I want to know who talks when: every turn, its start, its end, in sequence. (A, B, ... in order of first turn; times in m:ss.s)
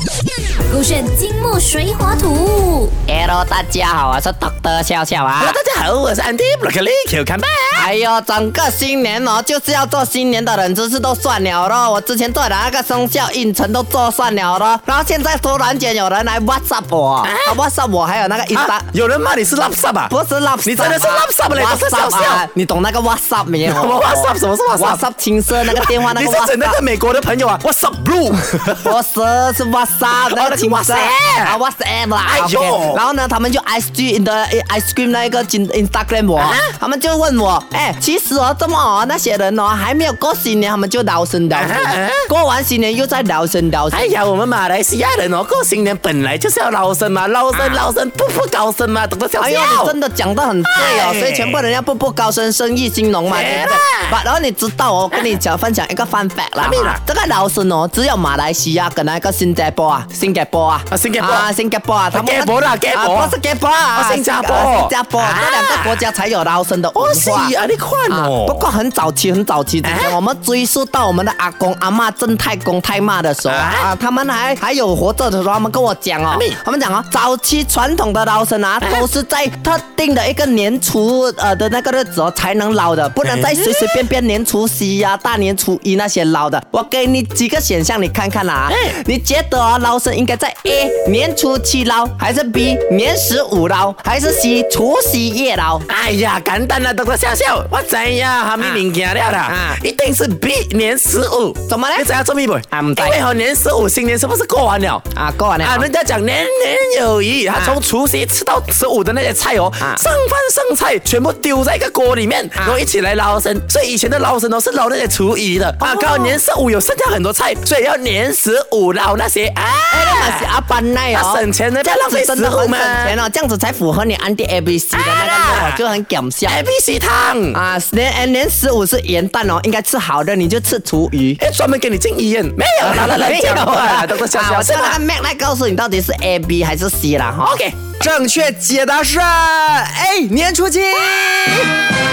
0:00.7-0:02.9 A
0:03.1-0:05.6 B
0:05.4-0:07.9 C
0:07.7-0:18.9 B
0:17.2-0:17.6 C
0:18.5-0:22.4 C
0:20.1-0:26.8 B
0:23.6-0:28.9 C
0:28.8-0:44.1 B
0:30.1-0:31.6 C
0:32.2-0:33.0 C
0:36.4-0:36.7 C
0:41.5-0:42.2 C
0:43.9-0:50.0 C
0:47.5-0:47.8 B
0:49.4-1:07.5 B
0:50.7-0:51.6 C
0:53.3-0:54.1 C
0:56.6-0:57.0 C
1:00.9-1:01.5 C
1:02.1-1:03.4 C
1:03.9-1:06.0 C
1:07.0-1:08.7 C
1:08.1-1:35.8 B
1:09.8-1:10.2 C
1:13.5-1:13.9 C
1:16.3-1:16.6 C
1:23.2-1:23.8 C
1:28.7-1:28.9 C
1:35.9-1:45.1 C
1:39.4-1:39.8 B
1:41.7-1:42.1 B
1:42.7-1:43.2 B
1:45.1-1:45.9 B
1:45.6-2:00.5 C
1:47.5-1:47.8 B
1:55.8-1:56.4 B
1:59.9-2:06.6 B
2:01.1-2:03.2 C
2:04.9-2:05.8 C
2:06.5-2:07.6 C
2:07.5-2:11.4 B
2:11.4-2:15.0 C
2:12.8-2:17.6 B
2:17.4-2:17.8 C
2:18.0-2:21.7 D